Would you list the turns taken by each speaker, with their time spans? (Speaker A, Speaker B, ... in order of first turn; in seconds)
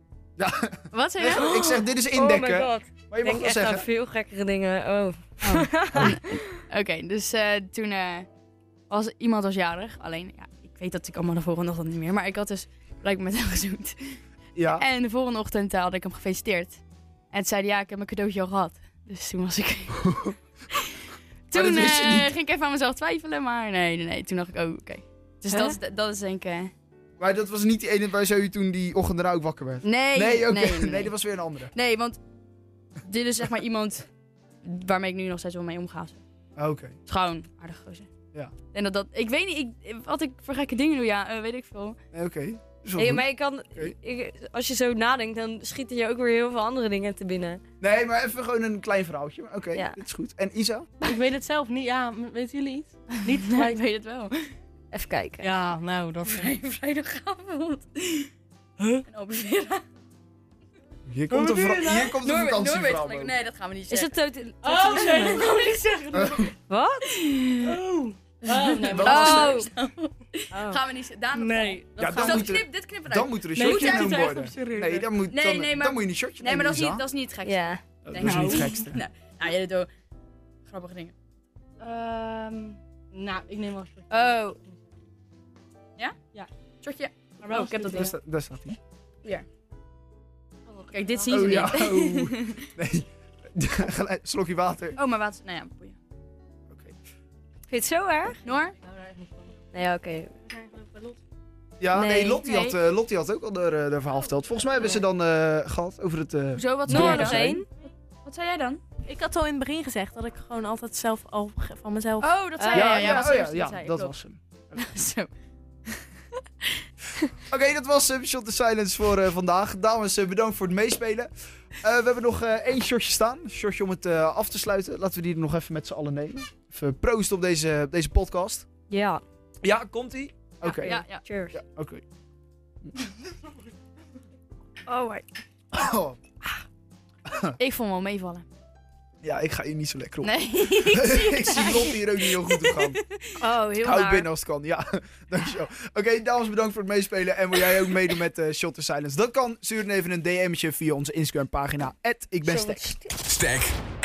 Speaker A: 0.4-3.9, 14.6-14.8, 21.5-22.3, 27.2-31.7, 36.6-37.0, 42.1-43.9, 47.8-50.9, 61.1-63.4, 66.1-66.5, 68.8-69.7, 72.0-77.1, 78.0-79.0, 87.9-88.8, 91.3-95.0, 96.7-97.0, 101.8-107.6, 112.7-114.4, 117.5-128.7, 129.6-132.0, 135.7-136.2, 137.3-137.6, 139.2-143.0, 143.8-152.9
Speaker B: 0.9-1.9, 5.4-8.3, 8.9-14.2, 14.7-16.8, 17.3-20.1, 21.5-26.7, 29.8-32.2, 33.0-34.1, 34.6-36.2, 37.1-38.1, 38.7-42.0, 53.2-54.5, 56.3-58.3, 59.1-59.8, 62.1-66.4, 67.1-67.8, 68.4-74.4, 75.3-79.9, 80.7-81.1, 81.8-82.8, 84.1-84.6, 86.8-88.1, 90.9-92.7, 94.9-96.0, 98.4-98.8, 102.4-102.8, 106.5-107.7, 108.2-108.8, 112.2-114.1, 114.7-115.3, 130.6-131.2, 137.6-138.4, 140.2-142.7
Speaker C: 2.1-6.4, 25.5-25.8, 43.0-47.6, 54.9-55.5, 63.9-65.4, 66.7-67.2, 69.0-69.7, 70.5-70.8, 77.4-77.8, 97.7-98.4, 99.7-100.3, 101.9-102.4, 106.9-107.7, 112.6-113.3, 128.9-129.2, 130.7-131.6, 134.9-135.2, 143.4-144.3, 152.5-153.1
Speaker D: 51.0-53.8, 55.4-56.7, 61.3-62.1, 64.6-66.5, 67.6-69.6, 71.3-72.4, 73.6-75.0, 78.2-78.7, 83.1-84.7, 87.4-88.1, 98.8-99.4
Speaker E: 100.5-101.0, 109.1-112.8